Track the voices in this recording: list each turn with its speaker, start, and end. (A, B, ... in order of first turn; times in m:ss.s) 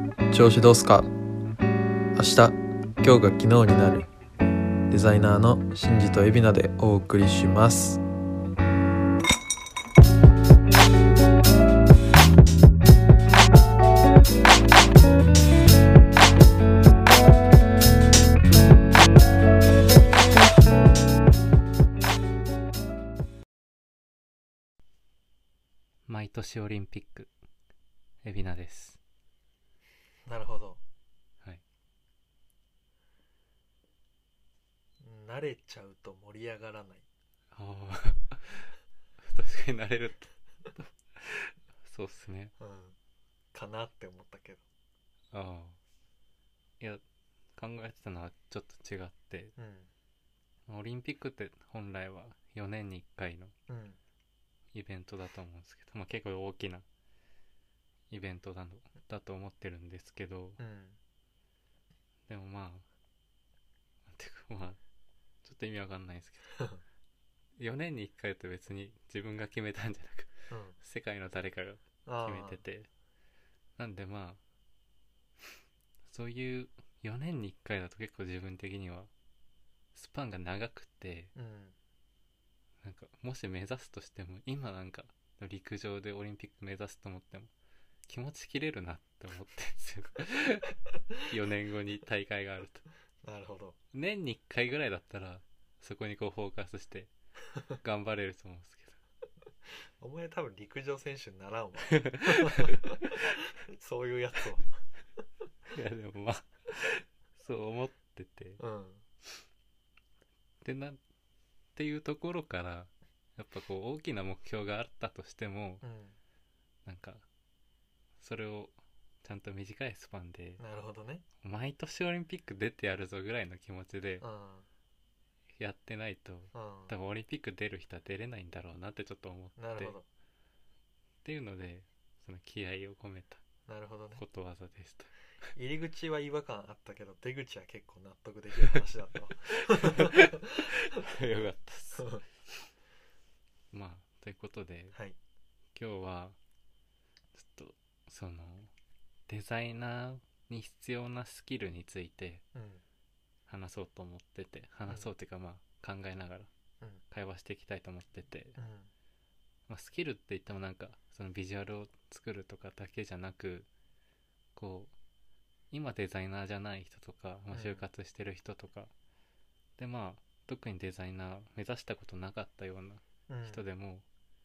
0:00.3-0:01.1 A
0:02.1-0:04.1 A
0:04.9-0:08.0 A
0:26.1-0:27.3 B
0:28.2-0:29.0 B
0:30.2-0:30.8 A
0:35.0-0:37.0 A
0:37.5-0:42.5 B
0:42.6-0:43.0 A
0:43.5-0:44.6 A
0:45.3-0:45.8 B
0:47.5-0:49.5 B
0:49.6-0:49.9 A
0:50.7-0:53.5 B
0:53.7-0:54.0 A
0:54.7-0:56.8 B
0:58.1-1:00.6 B
1:00.6-1:01.0 A
1:02.3-1:02.8 B
1:04.0-1:04.8 B
1:05.4-1:06.6 B
1:07.6-1:12.9 B
1:10.5-1:10.8 A
1:12.0-1:12.6 A
1:13.8-1:14.4 B
1:16.0-1:19.1 B
1:19.9-1:21.3 B
1:21.3-1:21.7 A
1:22.8-1:27.5 B
1:28.1-1:32.8 B
1:33.2-1:33.8 A
1:33.9-1:37.1 B
1:37.8-1:39.0 B
1:40.0-1:44.7 A
1:42.0-1:42.8 B
1:45.7-1:48.6 B
1:48.6-1:49.0 A
1:50.6-1:51.0 B
1:51.7-1:55.8 B
1:55.8-1:56.2 A
1:56.8-1:57.2 B
1:58.2-2:00.6 B
2:00.6-2:01.2 A
2:01.4-2:04.2 B
2:04.2-2:04.7 A
2:05.6-2:10.0 B
2:06.5-2:06.9 A
2:09.6-2:10.0 A
2:11.2-2:13.4 B
2:13.7-2:14.2 A
2:14.2-2:15.1 B
2:15.6-2:20.8 A
2:19.7-2:22.7 B
2:21.9-2:22.2 A
2:23.7-2:24.9 B
2:25.7-2:26.4 B
2:27.3-2:28.7 B
2:29.3-2:32.4 B
2:32.5-2:32.8 A
2:33.5-2:36.5 B
2:34.8-2:35.1 A
2:37.1-2:38.6 B
2:38.6-2:38.9 A
2:39.7-2:43.7 B
2:44.6-2:44.9 B
2:45.7-2:48.9 B
2:47.5-2:47.8 A
2:49.8-2:54.0 B
2:53.3-2:53.6 A